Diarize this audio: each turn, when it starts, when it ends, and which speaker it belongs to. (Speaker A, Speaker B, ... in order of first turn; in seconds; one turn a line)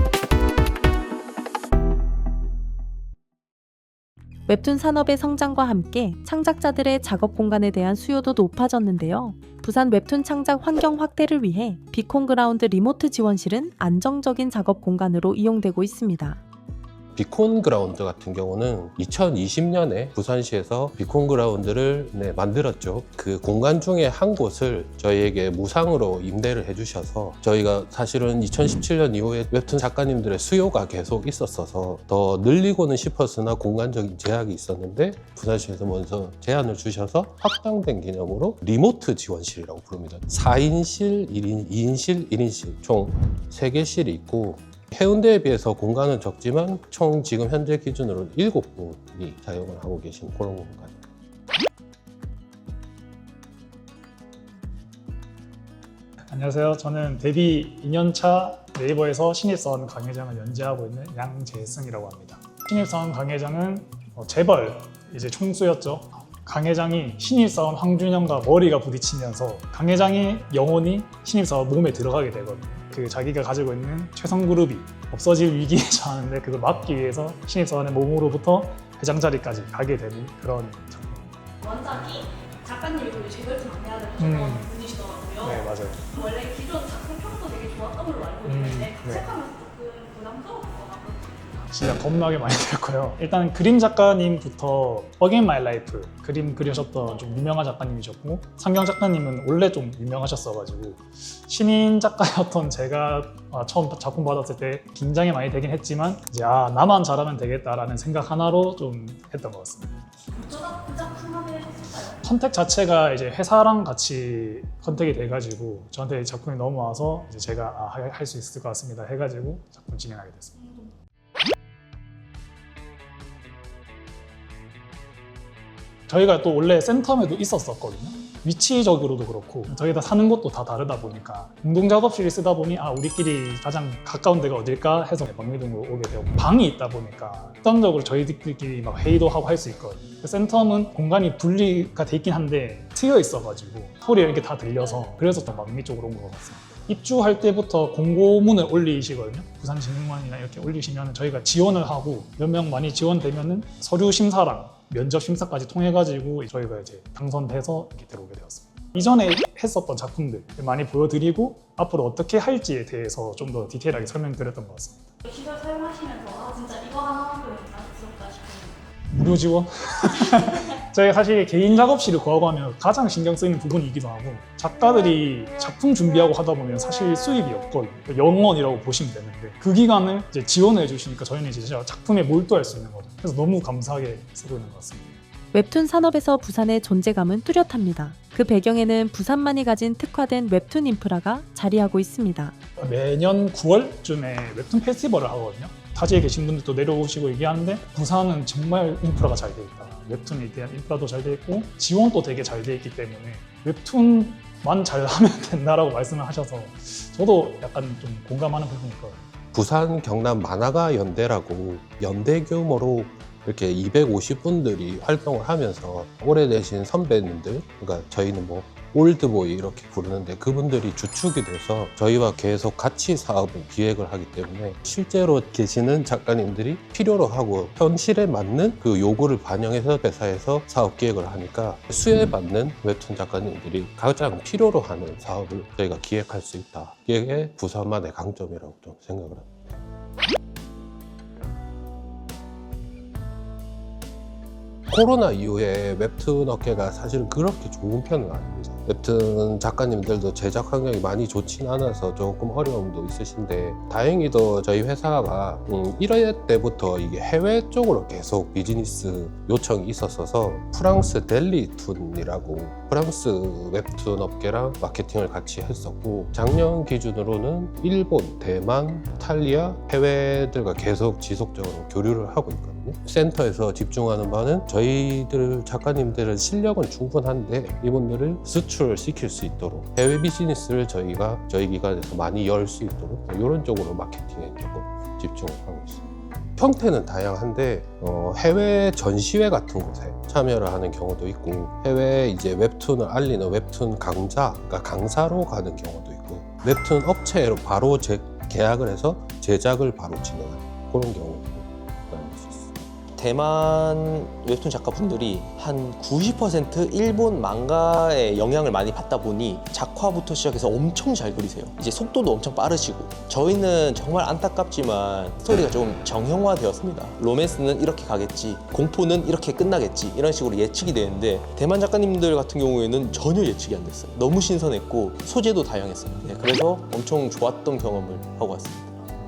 Speaker A: 4.5-16.4
Speaker B: 17.1-51.0
Speaker C: 56.3-81.3
Speaker D: 81.6-91.7
Speaker C: 84.2-84.7
Speaker C: 85.4-86.0
Speaker C: 88.4-89.3
Speaker C: 91.7-110.0
Speaker D: 110.3-112.2
Speaker C: 112.2-120.8
Speaker C: 126.1-165.1
Speaker D: 165.2-168.8
Speaker C: 169.1-185.2
Speaker A: 185.5-192.5
Speaker C: 192.8-209.2
Speaker B: 209.5-239.5
Speaker B: 244.9-286.0
Speaker B: 286.6-302.8
Speaker E: 303.1-328.9